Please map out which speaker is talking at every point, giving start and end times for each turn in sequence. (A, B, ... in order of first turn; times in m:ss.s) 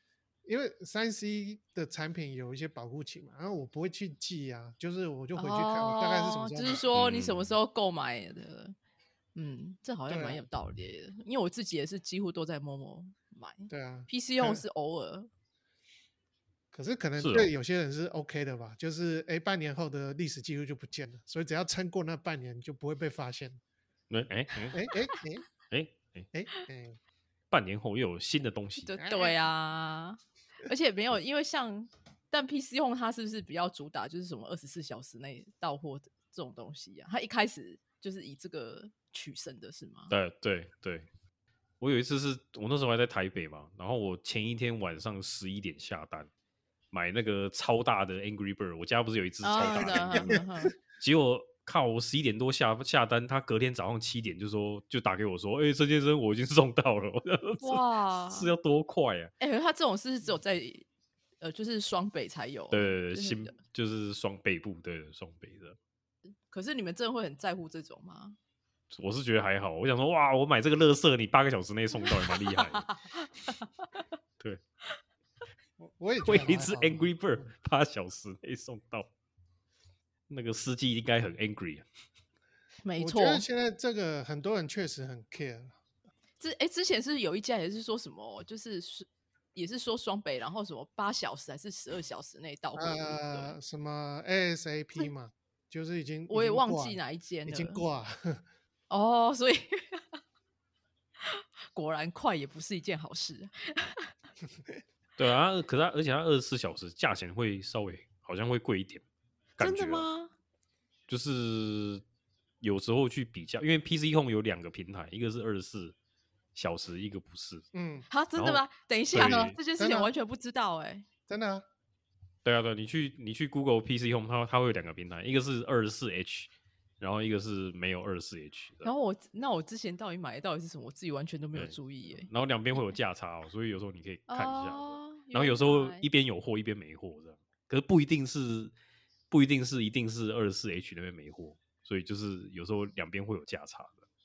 0:00.4-0:06.9 A
0:05.4-0:08.8 B
0:06.9-0:07.5 C
0:09.4-0:15.3 B
0:10.1-0:10.5 A
0:13.7-0:14.6 A
0:16.7-0:23.6 A
0:17.2-0:17.5 C
0:24.1-0:24.8 C
0:24.7-0:25.5 A
0:25.7-0:26.3 C
0:26.3-0:27.0 A
0:27.5-0:28.9 C
0:28.8-0:40.2 B
0:29.0-0:29.4 A
0:40.1-0:41.1 C
0:41.8-0:46.3 C
0:46.9-0:50.4 C
0:49.4-0:50.7 B
0:49.6-0:50.4 A
0:51.0-0:59.3 C
0:57.6-0:58.5 B
0:59.4-1:00.9 B
1:01.4-1:03.5 B
1:02.7-1:05.8 C
1:06.5-1:08.4 B
1:08.9-1:12.9 C
1:12.1-1:14.0 B
1:15.8-1:17.1 A
1:16.2-1:19.1 C
1:20.3-1:21.9 C
1:22.8-1:23.4 B
1:23.0-1:25.8 A
1:26.4-1:33.6 B
1:32.8-1:38.4 A
1:36.3-1:37.8 B
1:38.9-1:40.2 B
1:41.2-1:44.1 B
1:45.2-1:49.0 C
1:49.6-1:50.1 C
1:49.6-1:50.3 B
1:51.1-1:52.0 C
1:52.6-1:56.0 C
1:56.6-1:57.7 C
1:57.7-1:58.1 A
1:58.1-2:01.1 B
1:58.4-1:59.6 C
1:59.2-2:00.1 A
2:01.3-2:01.6 A
2:02.4-2:08.9 C
2:08.8-2:13.0 B
2:11.6-2:18.7 C
2:14.3-2:16.1 B
2:19.3-2:24.0 C